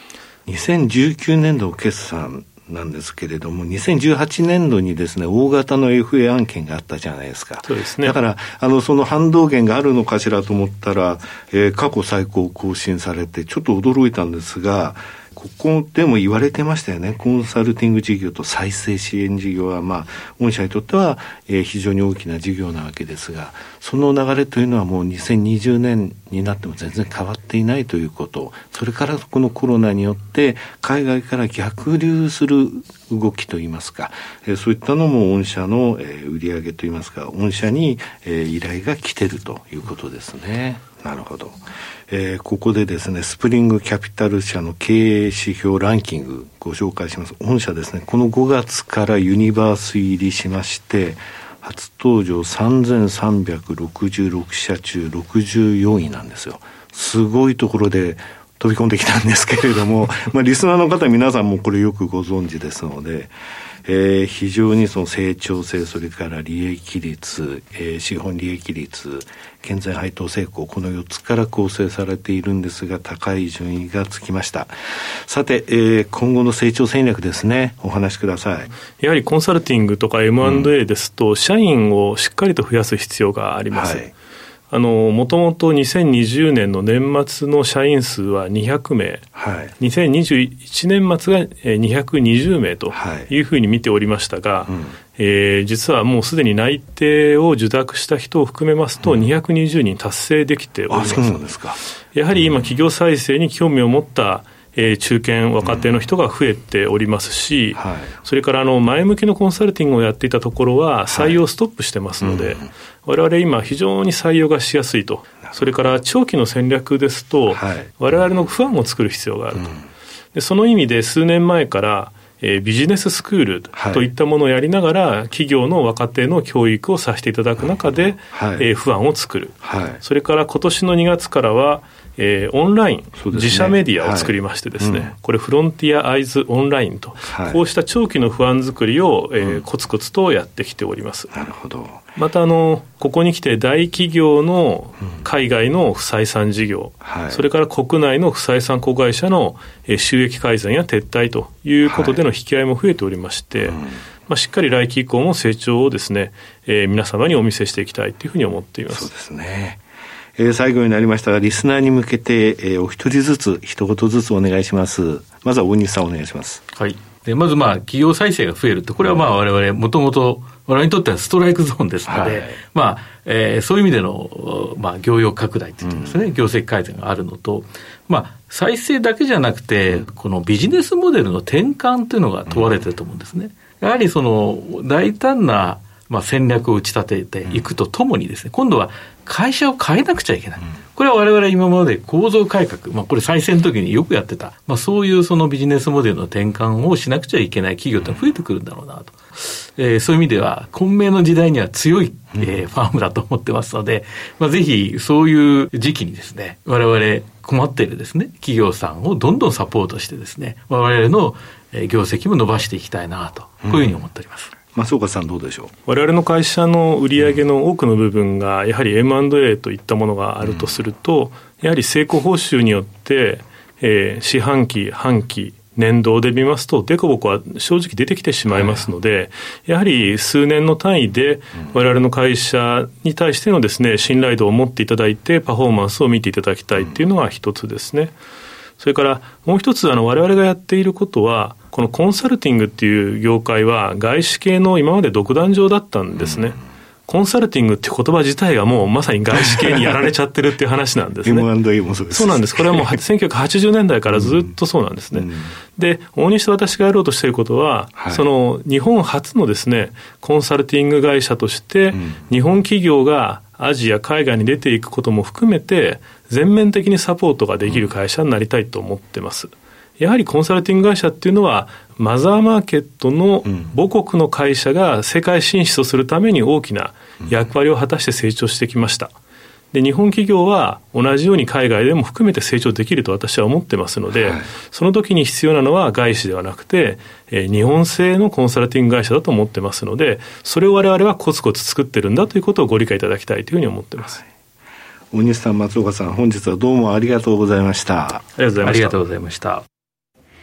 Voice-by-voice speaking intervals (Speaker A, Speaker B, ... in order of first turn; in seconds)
Speaker A: 0.5-63.3, 63.8-74.7, 75.3-78.7, 80.4-80.7, 83.7-84.1, 89.3-89.7, 92.9-93.3, 94.7-95.0, 99.0-99.3, 100.9-101.8, 102.3-102.8, 105.6-106.1, 107.7-108.1, 111.1-111.4, 112.2-112.7, 117.5-118.4, 119.5-119.8, 123.7-124.1, 127.6-128.7, 129.6-130.0, 133.2-135.1, 137.3-137.6, 139.4-139.6, 141.3-142.0, 147.0-147.4, 151.8-152.2, 153.6-154.0, 158.9-159.8, 160.4-166.6, 169.0-169.3, 172.1-172.6, 175.8-176.3, 182.5-182.9, 198.0-198.2, 202.3-202.6, 213.6-214.0, 214.7-215.7, 220.4-220.8, 228.5-228.9, 236.8-237.0, 246.1-246.5, 249.3-250.1, 251.2-253.0, 254.1-254.5, 255.1-255.5, 257.9-258.2, 261.9-262.2, 267.6-267.9, 273.4-273.7, 277.2-277.5, 284.1-284.5, 295.1-298.2
Speaker B: 7.6-8.2, 79.0-84.1, 84.7-101.5, 102.1-119.8, 120.3-141.3, 142.2-159.1, 215.8-238.2, 238.8-251.5, 252.1-279.1, 279.7-294.2, 298.4-298.9
Speaker C: 166.7-214.5, 298.6-299.6